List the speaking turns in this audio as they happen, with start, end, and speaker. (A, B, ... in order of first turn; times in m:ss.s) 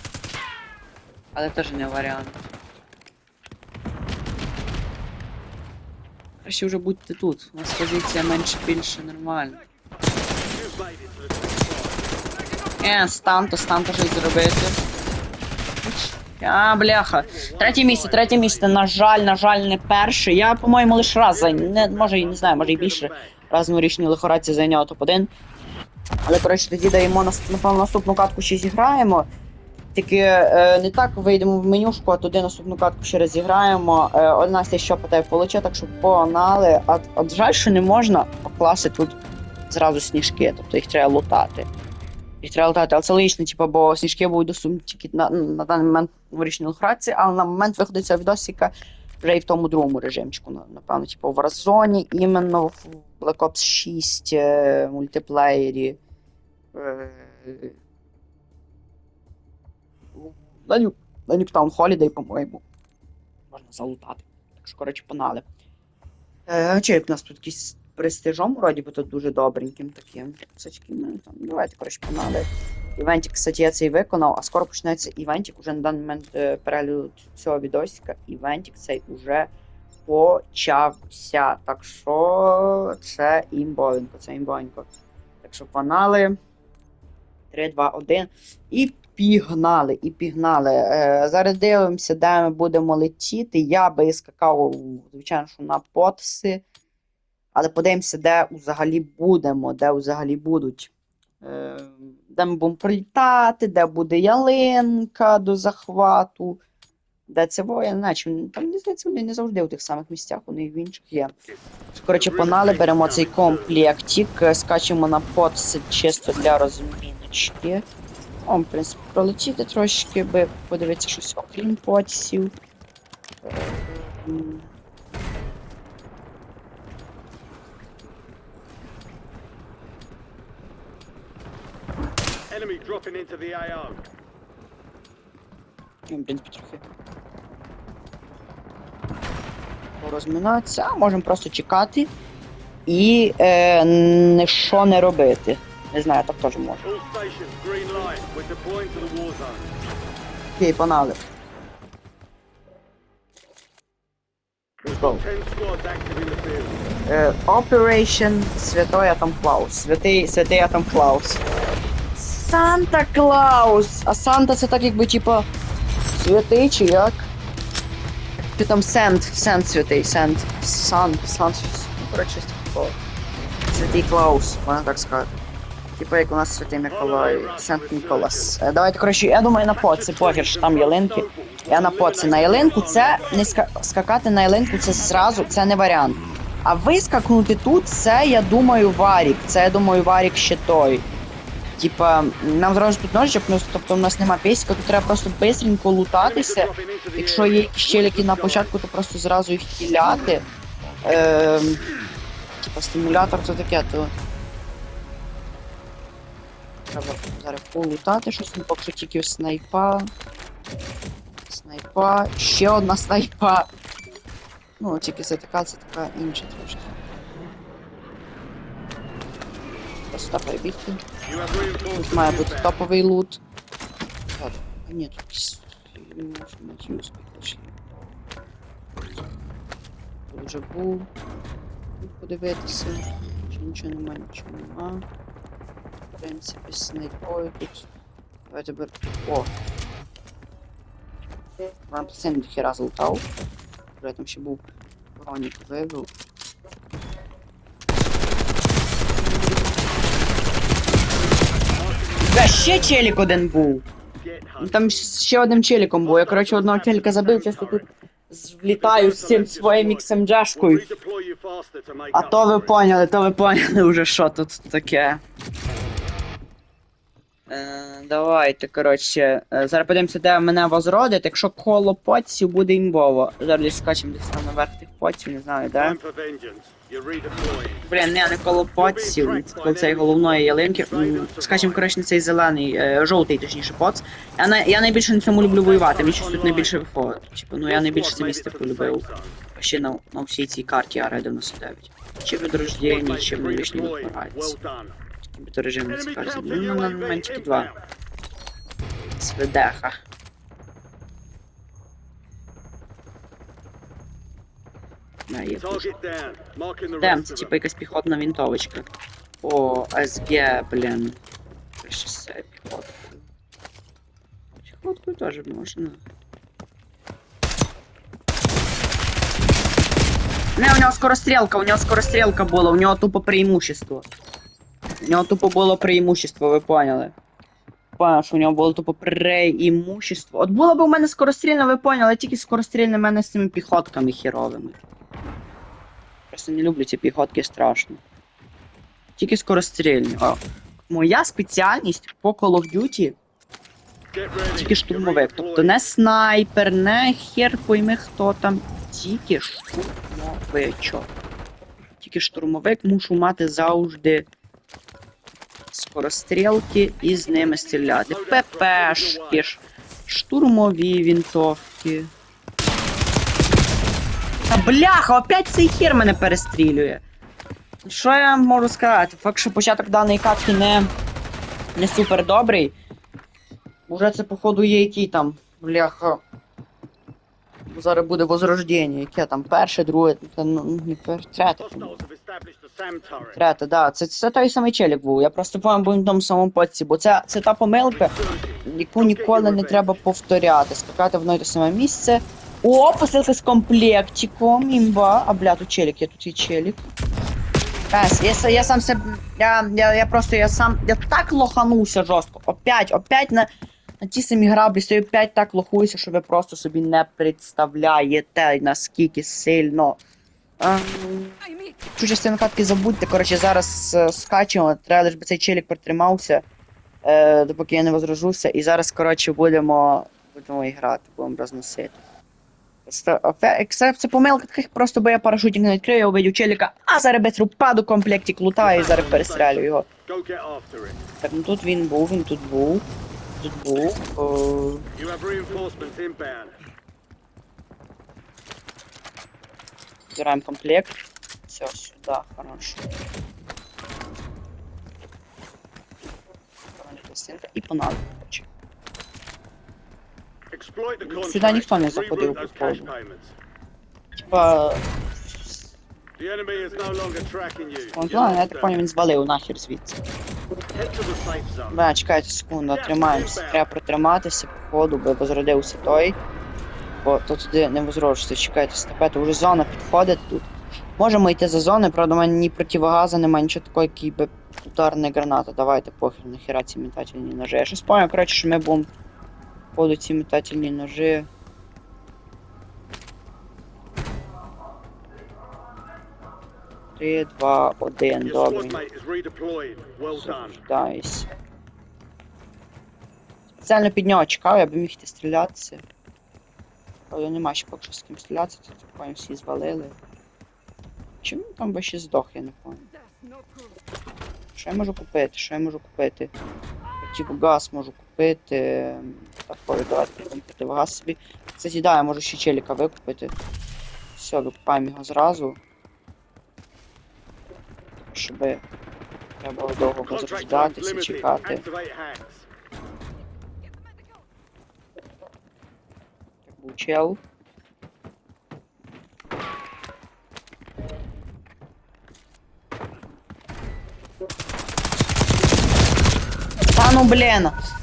0:01.3-0:02.4 A
0:06.4-0:09.6 A
0:10.4-0:12.3 B
0:12.8-0:14.8 A
0:15.8-0:25.3 A
0:17.1-0:18.8 B
0:21.3-0:23.4 B
0:26.2-0:29.3 A
0:29.9-0:39.2 A
0:39.7-0:41.7 A
0:42.4-0:56.0 A
0:56.7-0:57.8 A
1:00.2-1:02.6 A
1:03.5-1:05.4 A
1:06.5-1:19.5 A
1:20.0-1:24.9 A
1:25.4-1:26.4 A
1:27.5-1:36.6 A
1:37.5-1:40.9 A
1:41.4-1:46.6 A
1:47.3-1:51.3 A
1:51.5-1:53.8 B
1:51.9-1:57.8 A
1:58.4-2:02.5 A
2:03.4-2:04.7 A
2:12.5-2:14.0 B
2:16.1-2:16.8 A
2:20.0-2:22.1 A
2:22.9-2:26.8 A
2:26.8-2:29.7 B
2:30.6-2:31.2 A
2:34.8-2:35.2 A
2:34.8-2:36.9 B
2:37.0-2:41.4 A
2:42.2-2:45.5 A
2:46.1-2:47.3 A
2:48.5-2:53.0 A
2:53.7-2:55.3 A
2:56.0-3:11.0 A
2:56.9-2:58.6 B
2:59.7-3:03.6 B
3:11.8-3:20.4 A
3:16.2-3:18.7 B
3:21.0-3:21.8 A
3:22.6-3:24.1 A
3:26.9-3:30.1 A
3:31.5-3:33.7 A
3:34.8-3:37.0 A
3:40.1-3:41.0 A
3:41.2-3:42.8 B
3:41.9-3:43.4 A
3:44.4-3:47.7 A
3:50.3-3:51.1 A
3:52.0-3:55.0 A
3:56.2-3:57.9 A
3:58.5-3:59.5 A
4:01.9-4:03.2 A
4:04.0-4:04.6 A
4:05.2-4:06.1 A
4:11.7-4:15.0 B
4:12.3-4:13.8 A
4:14.6-4:20.8 A
4:16.0-4:17.9 B
4:18.7-4:22.8 B
4:22.1-4:25.2 A
4:27.5-4:36.0 A
4:35.8-4:37.9 B
4:37.8-4:49.0 A
4:38.8-4:41.9 B
4:45.3-4:46.8 B
4:47.6-4:49.4 B
4:49.5-4:54.5 A
4:52.5-4:55.0 B
4:55.3-4:57.7 A
4:55.9-4:57.8 B
4:59.2-5:00.0 A
5:05.3-5:05.9 A
5:05.6-5:07.5 B
5:07.0-5:08.9 A
5:09.4-5:11.2 A
5:11.8-5:13.2 A
5:14.6-5:16.0 A
5:20.6-5:24.0 A
5:25.0-5:27.1 A
5:28.0-5:34.8 A
5:36.3-5:38.0 A
5:39.2-5:43.2 A
5:44.1-5:45.9 B
5:44.5-5:51.1 A
5:52.0-5:54.3 A
5:55.7-6:02.1 A
5:58.0-5:59.4 B
6:04.5-6:07.0 A
6:07.8-6:10.9 A
6:11.8-6:12.7 A
6:13.9-6:16.2 A
6:17.7-6:22.0 A
6:21.6-6:23.4 B
6:23.3-6:28.1 A
6:27.9-6:30.0 B
6:28.6-6:36.8 A
6:37.9-6:43.5 A
6:44.0-6:50.0 A
6:50.6-6:51.4 A
6:51.9-6:56.4 A
6:57.0-7:02.0 A
7:02.8-7:09.8 A
7:08.6-7:11.0 B
7:11.2-7:12.8 A
7:13.4-7:14.8 A
7:14.9-7:16.6 B
7:20.2-7:22.8 A
7:26.8-7:28.4 A
7:30.5-7:33.4 B
7:31.0-7:32.9 A
7:34.2-7:35.7 A
7:36.2-7:38.8 B
7:37.9-7:40.0 A
7:40.7-7:41.8 B
7:41.7-7:46.2 A
7:42.7-7:43.6 B
7:47.0-7:58.9 A
7:59.8-8:01.3 A
8:07.0-8:08.8 A
8:08.2-8:10.6 B
8:10.1-8:11.3 A
8:13.6-8:15.8 A
8:17.1-8:19.9 A
8:21.2-8:22.9 A
8:24.5-8:26.3 A
8:27.0-8:33.3 A
8:34.2-8:35.6 A
8:38.1-8:38.6 A
8:39.4-8:41.6 A
8:40.0-8:42.5 B
8:46.5-8:47.2 A
8:56.7-8:57.6 A